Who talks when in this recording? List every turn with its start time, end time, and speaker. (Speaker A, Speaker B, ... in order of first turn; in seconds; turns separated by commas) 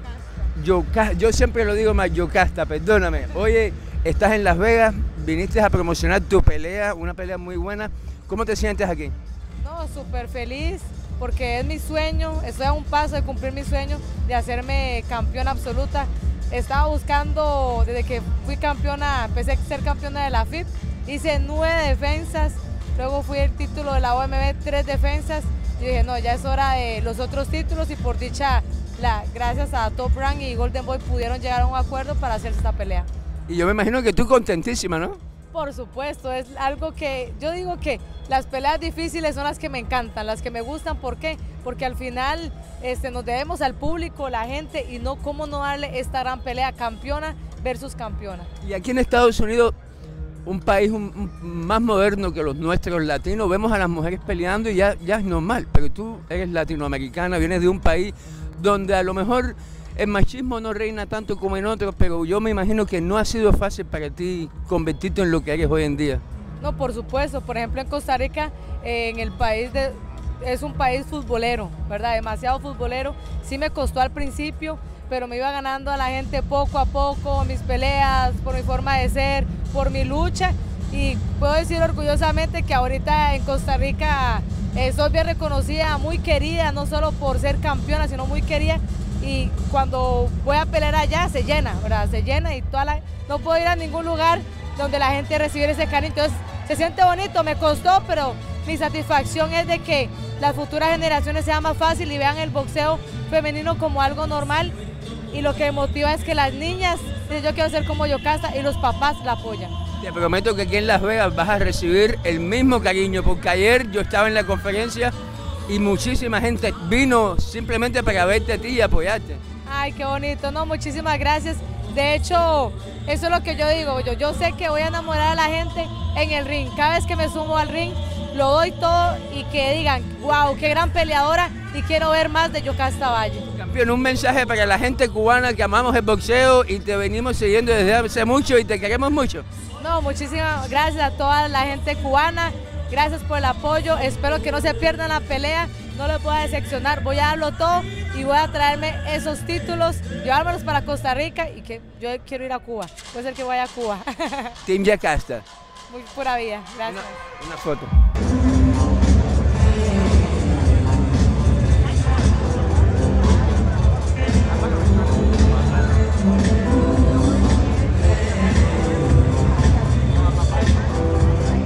Speaker A: 0.5-9.1, Speaker B: 9.6-33.1, Speaker A: 33.5-35.2, Speaker B: 35.5-48.5, Speaker A: 48.6-49.7, Speaker A: 50.5-66.2, Speaker B: 66.6-104.7, Speaker B: 105.3-109.7, Speaker A: 110.0-115.1, Speaker A: 115.7-119.4, Speaker B: 119.7-133.4, Speaker A: 133.5-139.4, Speaker B: 139.8-154.6, Speaker A: 154.6-155.4, Speaker B: 155.9-157.2, Speaker A: 156.8-157.9